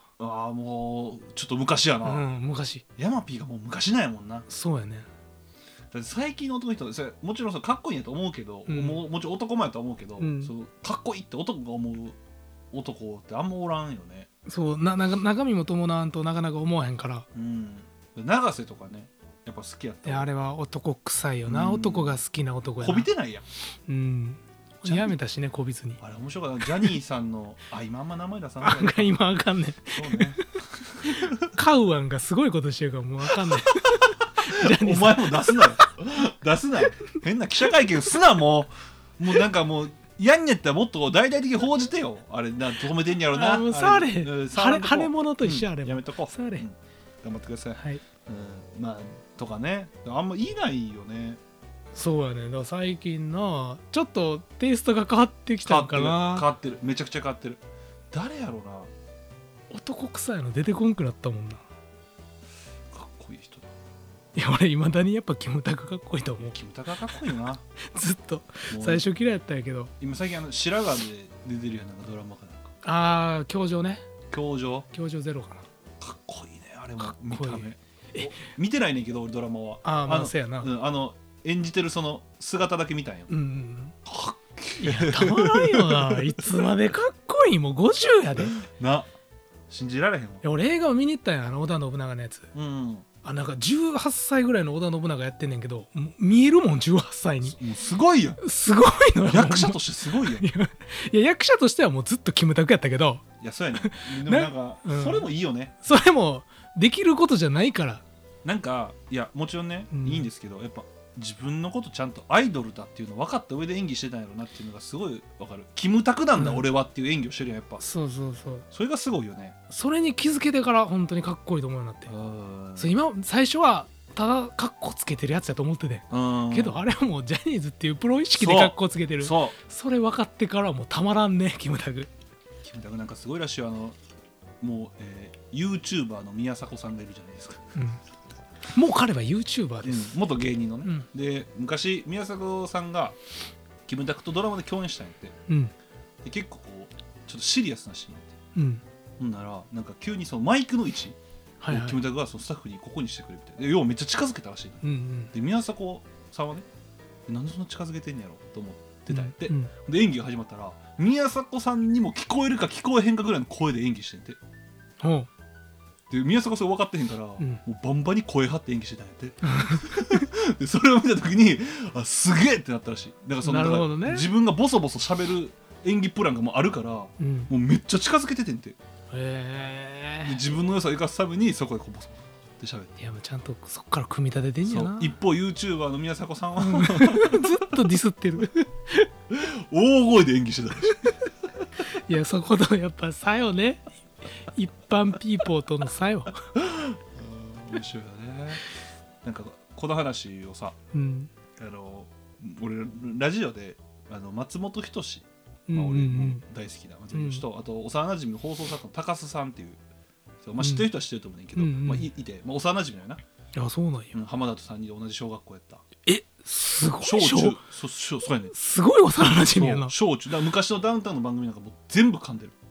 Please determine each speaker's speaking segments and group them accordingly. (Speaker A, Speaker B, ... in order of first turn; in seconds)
Speaker A: 0.2-2.2, 3.0-4.5, 5.9-12.2, 12.7-14.3, 17.3-20.3, 21.5-22.1, 22.8-23.4, 24.8-25.1, 26.0-29.1, 29.9-30.4, 34.4-51.4, 55.6-57.6, 58.1-58.9, 62.9-63.7, 66.4-67.6, 68.7-69.0, 70.0-72.7, 74.3-74.8, 76.0-83.3, 84.0-86.2, 88.4-89.1, 89.7-90.4, 92.5-93.0, 97.5-98.4, 99.2-100.4, 103.4-105.7, 108.4-117.8, 118.7-119.6, 122.1-122.9, 126.1-126.8, 128.4-129.5, 132.6-133.9, 134.6-137.6, 139.8-143.2, 143.9-145.3, 146.2-148.3, 149.2-151.2, 151.7-154.8, 155.3-156.6, 157.3-164.4, 166.1-178.8, 180.2-182.9, 184.7-187.5, 189.3-191.1, 196.6-198.6, 199.2-200.8, 201.6-209.8, 210.4-213.2, 214.1-215.8, 217.0-218.5, 219.5-222.5
Speaker B: 2.0-2.8, 4.5-5.1, 8.7-9.0, 10.2-10.5, 14.4-17.2, 20.0-23.1, 23.9-26.0, 28.6-30.4, 31.5-35.8, 43.3-46.6, 47.8-48.0, 51.9-56.5, 59.7-61.6, 64.3-66.5, 67.9-69.9, 72.8-74.1, 74.9-75.6, 77.0-78.3, 79.8-80.7, 83.3-83.9, 84.8-88.6, 90.4-92.5, 93.2-97.6, 98.4-103.2, 103.8-105.3, 105.8-108.0, 109.9-110.3, 116.3-116.7, 117.8-118.6, 119.7-122.1, 122.8-132.1, 138.7-140.1, 145.5-145.7, 148.5-148.8, 151.6-152.0, 154.8-155.3, 159.1-159.7, 165.0-165.3, 169.4-170.3, 173.4-174.3, 177.2-177.5, 179.1-180.4, 183.0-185.2, 186.6-189.1, 191.9-193.9, 194.4-196.4, 200.9-201.3, 205.7-206.4, 207.1-207.4, 210.6-210.9, 211.5-212.1, 213.6-214.1, 216.1-217.6, 218.5-219.9